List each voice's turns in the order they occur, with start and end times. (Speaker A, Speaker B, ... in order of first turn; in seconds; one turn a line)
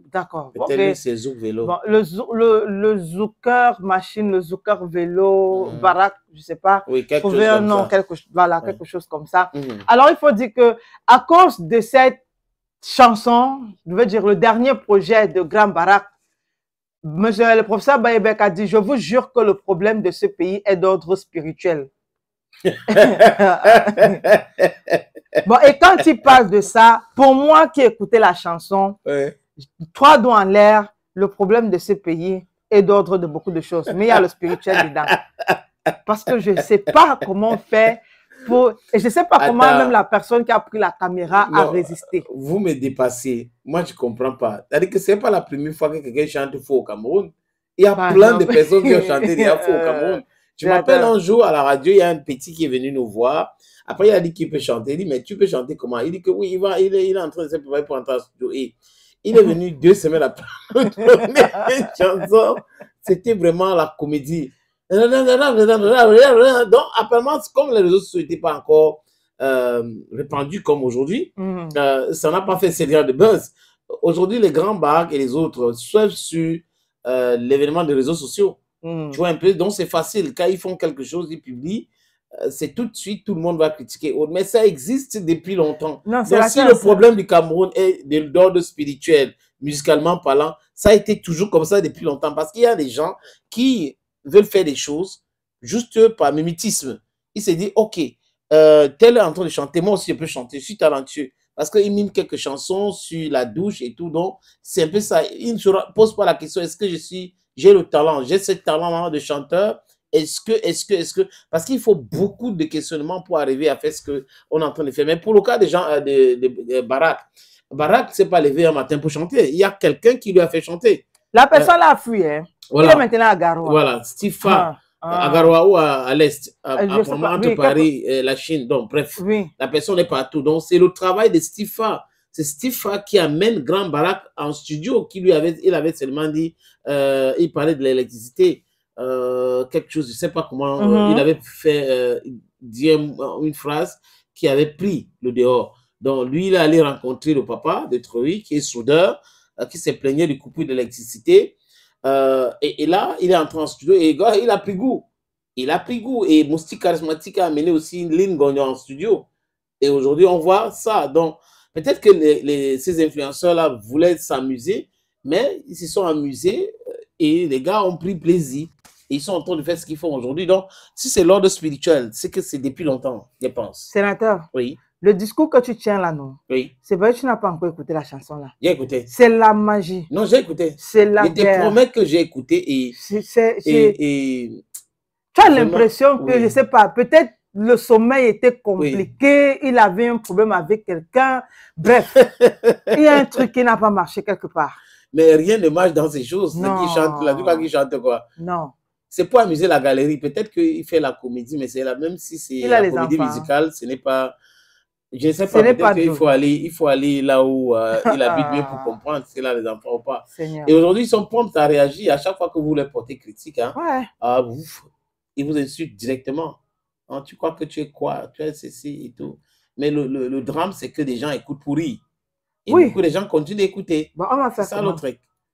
Speaker A: 0.1-1.0
Speaker B: 0.5-1.7
Speaker A: 1.6-12.2
Speaker B: 5.5-5.9
Speaker B: 6.9-7.9
Speaker B: 9.5-9.8
Speaker A: 12.8-16.1
Speaker A: 17.0-21.9
Speaker B: 22.7-25.0
Speaker A: 22.9-24.2
Speaker A: 25.4-29.0
Speaker B: 29.1-29.3
Speaker A: 29.6-35.1
Speaker B: 35.1-35.5
Speaker A: 36.0-42.2
Speaker B: 39.4-39.9
Speaker B: 41.4-78.6
Speaker A: 48.0-51.1
Speaker A: 71.4-71.8
Speaker A: 78.8-79.2
Speaker B: 79.1-81.9
Speaker B: 82.4-121.7
Speaker A: 86.0-87.0
Speaker A: 121.3-123.8
Speaker B: 122.7-123.0
Speaker B: 123.6-159.3
Speaker A: 124.4-125.5
Speaker A: 126.8-127.8
Speaker A: 129.2-129.5
Speaker A: 140.8-141.2
Speaker B: 159.8-173.9
Speaker A: 173.9-174.5
Speaker B: 174.5-174.8
Speaker A: 175.0-178.5
Speaker B: 178.6-179.1
Speaker A: 179.1-180.1
Speaker B: 180.1-182.9
Speaker A: 180.8-181.8
Speaker A: 182.9-183.9
Speaker B: 183.6-184.6
Speaker A: 185.3-192.2
Speaker B: 185.4-186.5
Speaker B: 188.8-189.0
Speaker B: 192.2-192.7
Speaker A: 192.9-194.8
Speaker B: 195.1-198.2
Speaker A: 196.5-197.7
Speaker A: 198.4-198.7
Speaker B: 199.1-204.3
Speaker A: 202.6-203.5
Speaker B: 205.1-222.0
Speaker A: 205.5-206.2
Speaker A: 208.0-208.9
Speaker A: 210.3-210.7
Speaker A: 213.7-214.1
Speaker B: 222.6-225.2
Speaker A: 222.7-222.9
Speaker A: 224.2-225.0